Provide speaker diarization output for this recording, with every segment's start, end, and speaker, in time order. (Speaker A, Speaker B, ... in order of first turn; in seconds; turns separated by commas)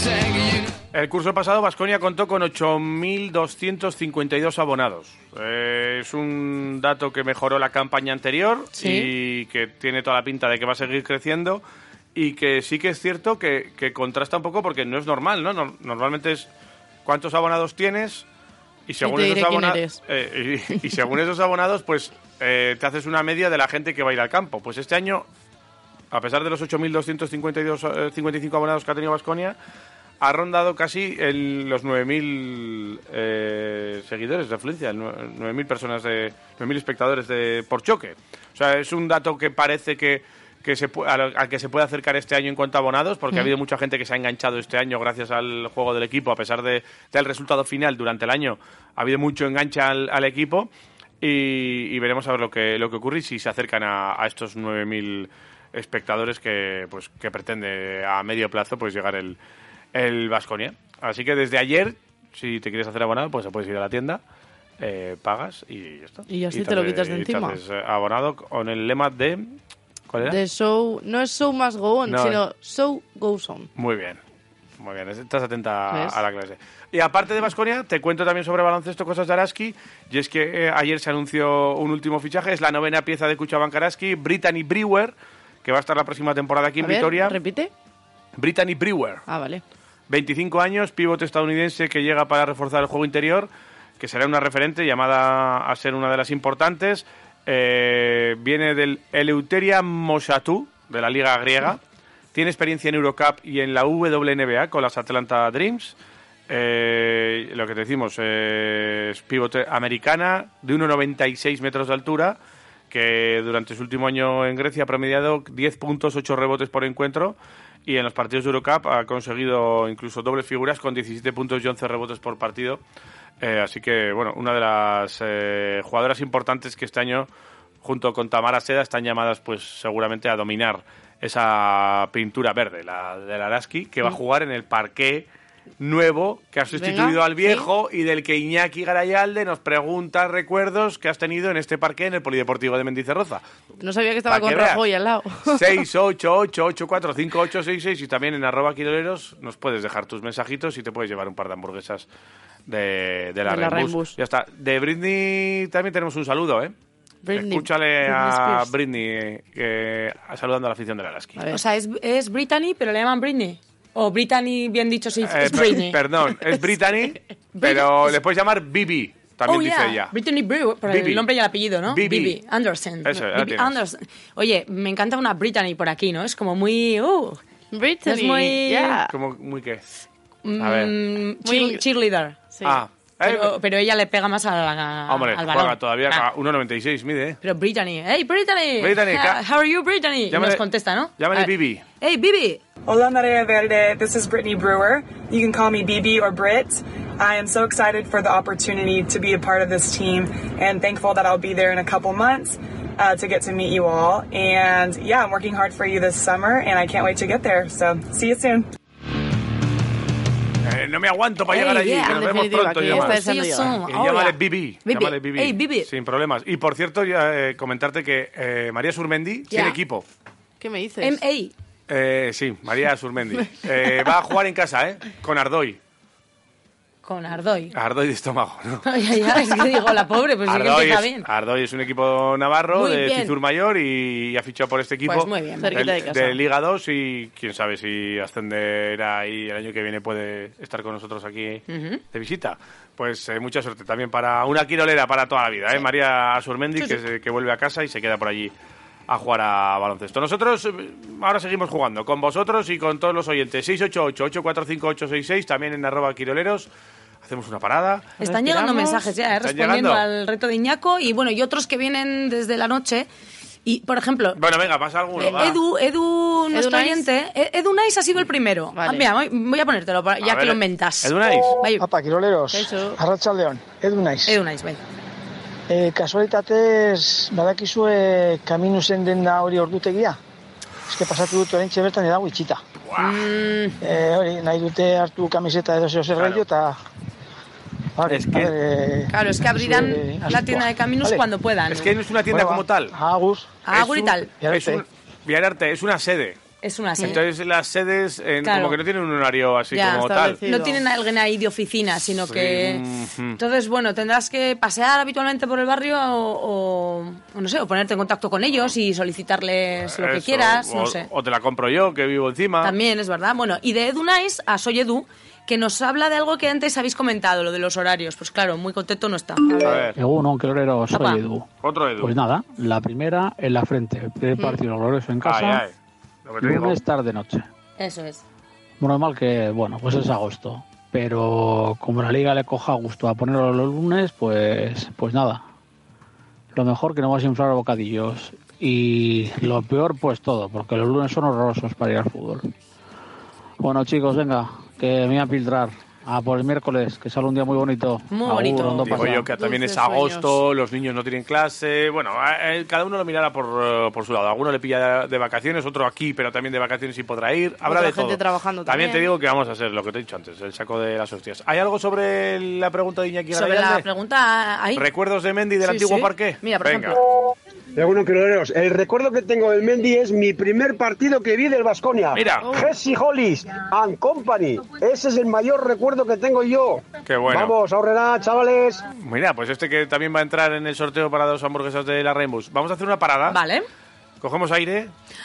Speaker A: 0.9-11.6, Speaker B: 8.8-9.1, Speaker A: 12.1-16.5, Speaker A: 17.0-18.2, Speaker A: 18.9-25.2, Speaker B: 19.0-20.0, Speaker A: 26.1-29.6, Speaker A: 30.2-50.7, Speaker A: 51.2-59.4, Speaker A: 59.9-64.2, Speaker A: 64.8-69.5, Speaker B: 66.3-67.6, Speaker A: 70.1-70.4, Speaker B: 70.2-73.7, Speaker A: 72.1-72.4, Speaker A: 73.8-74.2, Speaker A: 74.8-85.1, Speaker B: 75.9-76.2, Speaker A: 85.6-87.4, Speaker B: 86.8-87.7, Speaker A: 88.4-89.2, Speaker B: 89.3-89.6, Speaker A: 90.1-93.5, Speaker A: 94.0-101.8, Speaker A: 102.3-105.9, Speaker A: 106.5-112.4, Speaker A: 112.9-122.8, Speaker A: 123.4-127.3, Speaker A: 127.8-135.3, Speaker A: 135.8-143.4, Speaker B: 136.8-137.7, Speaker B: 143.8-145.7, Speaker A: 144.3-144.8, Speaker A: 145.4-152.0, Speaker A: 152.7-156.7, Speaker B: 153.4-154.2, Speaker B: 157.2-157.7, Speaker A: 157.3-161.4, Speaker B: 158.2-158.6, Speaker C: 161.5-166.5, Speaker A: 165.2-170.1, Speaker C: 167.5-168.2, Speaker C: 169.4-177.4, Speaker A: 170.8-171.2, Speaker A: 171.9-172.4, Speaker A: 173.0-173.8, Speaker B: 177.7-179.1, Speaker C: 178.1-179.0, Speaker A: 179.1-179.8, Speaker C: 180.4-182.4, Speaker A: 180.6-180.9, Speaker B: 181.4-181.8, Speaker A: 182.6-183.5, Speaker C: 183.2-186.3, Speaker A: 185.1-187.4, Speaker C: 187.4-192.6, Speaker A: 188.8-189.4, Speaker A: 190.3-190.6, Speaker A: 191.2-191.8, Speaker D: 192.8-208.7, Speaker A: 210.6-213.2, Speaker C: 211.5-212.2, Speaker B: 212.1-213.7, Speaker C: 212.8-215.9, Speaker A: 213.8-220.0, Speaker C: 219.5-219.8, Speaker B: 220.6-221.2, Speaker C: 221.0-221.5, Speaker A: 221.9-225.8, Speaker C: 227.0-227.7, Speaker A: 227.7-228.9, Speaker C: 228.8-231.3, Speaker A: 230.5-248.5, Speaker C: 232.7-233.4, Speaker C: 235.0-236.0, Speaker B: 235.6-236.4, Speaker C: 241.7-242.0, Speaker A: 249.1-256.7, Speaker A: 257.2-258.2, Speaker C: 258.2-263.1, Speaker B: 258.2-259.1, Speaker A: 259.4-260.0, Speaker C: 263.6-264.4, Speaker A: 264.4-265.6, Speaker B: 265.2-265.5, Speaker C: 265.2-271.9, Speaker B: 266.5-267.1, Speaker B: 268.7-269.1, Speaker A: 270.2-271.6, Speaker E: 271.8-274.4, Speaker B: 272.5-273.0, Speaker C: 274.2-274.8, Speaker E: 275.7-280.2, Speaker E: 280.9-282.6, Speaker A: 282.9-283.3, Speaker C: 283.0-283.8, Speaker E: 283.8-286.8, Speaker A: 286.1-286.4, Speaker E: 288.0-291.2, Speaker A: 288.1-288.5, Speaker C: 289.1-291.9, Speaker A: 291.7-293.0, Speaker E: 292.3-293.6, Speaker C: 293.6-294.3, Speaker A: 293.7-296.4, Speaker E: 294.4-294.8, Speaker C: 296.6-297.2, Speaker A: 297.0-300.4, Speaker C: 298.4-298.8, Speaker C: 299.7-302.8, Speaker B: 299.9-300.8, Speaker A: 302.3-303.4, Speaker C: 303.4-311.1, Speaker A: 309.9-312.7, Speaker C: 312.6-319.9, Speaker B: 319.5-319.8, Speaker A: 319.6-320.0, Speaker F: 319.9-321.5, Speaker C: 320.9-321.2, Speaker A: 321.6-322.1, Speaker F: 322.0-325.6, Speaker A: 325.2-325.7, Speaker A: 326.2-326.8, Speaker F: 326.4-327.5, Speaker C: 327.8-328.2, Speaker F: 328.8-335.4, Speaker F: 336.5-342.5, Speaker F: 343.6-349.3, Speaker C: 348.1-349.2, Speaker A: 348.8-363.8, Speaker B: 349.4-350.4, Speaker B: 357.7-359.1, Speaker C: 363.3-364.9, Speaker A: 364.8-367.0, Speaker C: 365.6-367.0, Speaker G: 367.8-378.8, Speaker A: 372.1-372.5, Speaker B: 372.4-372.7, Speaker A: 377.1-377.5, Speaker A: 378.9-383.4, Speaker C: 383.3-383.7, Speaker A: 384.2-384.9